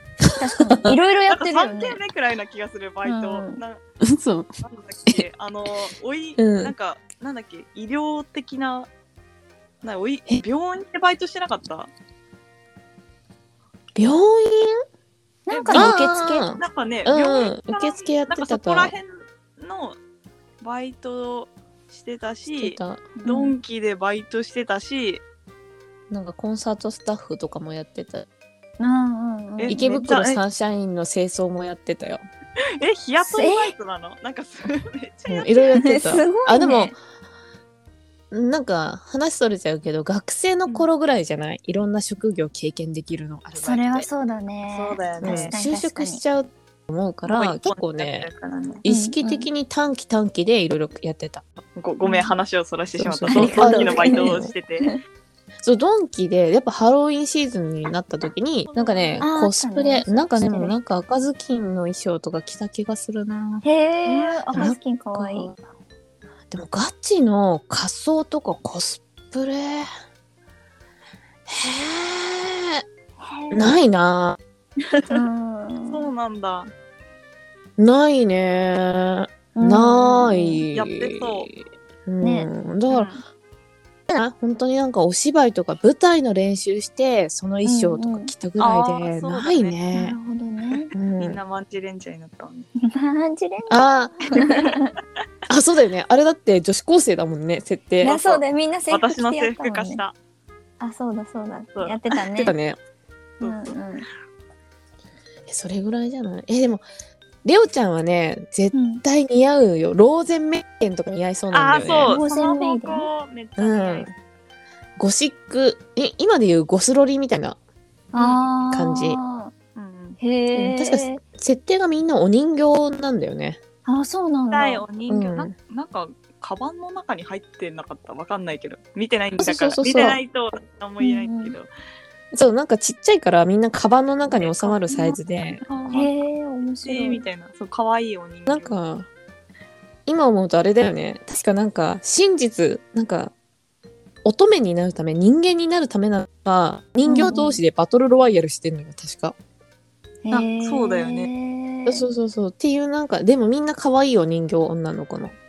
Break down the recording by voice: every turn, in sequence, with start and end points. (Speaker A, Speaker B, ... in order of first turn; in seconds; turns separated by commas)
Speaker A: 0.2-0.9, Speaker B: 0.4-2.0, Speaker C: 1.3-3.8, Speaker B: 3.0-3.6, Speaker A: 4.0-4.5, Speaker C: 4.6-8.9, Speaker A: 6.4-6.7, Speaker C: 9.8-11.9, Speaker A: 13.9-14.8, Speaker B: 15.5-16.5, Speaker C: 15.5-16.0, Speaker A: 15.7-18.9, Speaker C: 16.6-20.0, Speaker C: 20.6-25.2, Speaker A: 22.5-23.0, Speaker B: 23.2-23.5, Speaker A: 26.1-28.2, Speaker B: 28.8-29.9, Speaker C: 29.6-30.4, Speaker A: 29.7-32.2, Speaker C: 32.8-36.0, Speaker B: 33.2-33.7, Speaker A: 35.3-37.0, Speaker B: 35.8-36.9, Speaker A: 38.3-44.1, Speaker B: 43.6-46.2, Speaker C: 44.7-45.5, Speaker A: 45.2-48.3, Speaker C: 47.2-48.8, Speaker A: 48.8-51.4, Speaker B: 48.9-49.5, Speaker C: 51.7-54.9, Speaker B: 52.0-52.3, Speaker A: 53.0-54.5, Speaker B: 53.3-55.0, Speaker A: 55.6-63.6, Speaker C: 58.6-59.3, Speaker B: 59.2-60.7, Speaker B: 63.6-65.5, Speaker C: 64.0-64.7, Speaker A: 64.5-65.6, Speaker A: 66.5-69.9, Speaker A: 71.5-72.8, Speaker B: 73.2-73.8, Speaker A: 73.5-74.4, Speaker C: 74.8-75.2, Speaker B: 75.1-76.0, Speaker C: 75.9-76.7, Speaker A: 77.8-81.4, Speaker B: 79.5-80.6, Speaker C: 80.7-81.5, Speaker A: 82.0-83.1, Speaker B: 82.2-82.5, Speaker C: 82.9-83.2, Speaker A: 84.1-90.2, Speaker B: 87.6-88.3, Speaker C: 88.6-89.8, Speaker B: 89.9-90.9, Speaker C: 90.7-92.7, Speaker A: 90.9-91.4, Speaker B: 92.8-94.9, Speaker A: 93.7-94.1, Speaker C: 94.4-94.7, Speaker A: 95.5-98.1, Speaker B: 98.0-100.0, Speaker C: 98.0-100.1, Speaker B: 100.8-102.5, Speaker A: 102.4-102.8, Speaker C: 103.4-103.8, Speaker B: 103.4-104.1, Speaker A: 105.5-106.8, Speaker A: 107.4-112.2, Speaker B: 108.7-109.0, Speaker C: 111.5-114.1, Speaker B: 112.1-113.1, Speaker A: 113.6-114.1, Speaker A: 115.0-117.6, Speaker B: 118.1-119.5, Speaker C: 118.1-118.5, Speaker A: 118.7-119.2, Speaker C: 119.8-120.2, Speaker B: 120.2-121.2, Speaker A: 120.5-123.6, Speaker B: 123.8-124.8, Speaker C: 124.5-131.7, Speaker A: 125.1-125.5, Speaker A: 129.4-130.2, Speaker B: 131.0-131.5, Speaker A: 132.3-135.6, Speaker C: 134.2-136.1, Speaker B: 135.9-137.2, Speaker C: 136.8-138.8, Speaker A: 138.5-139.1, Speaker A: 140.1-143.3, Speaker A: 144.2-149.3, Speaker B: 147.0-147.6, Speaker B: 150.2-152.0, Speaker C: 150.3-151.3, Speaker A: 151.8-155.3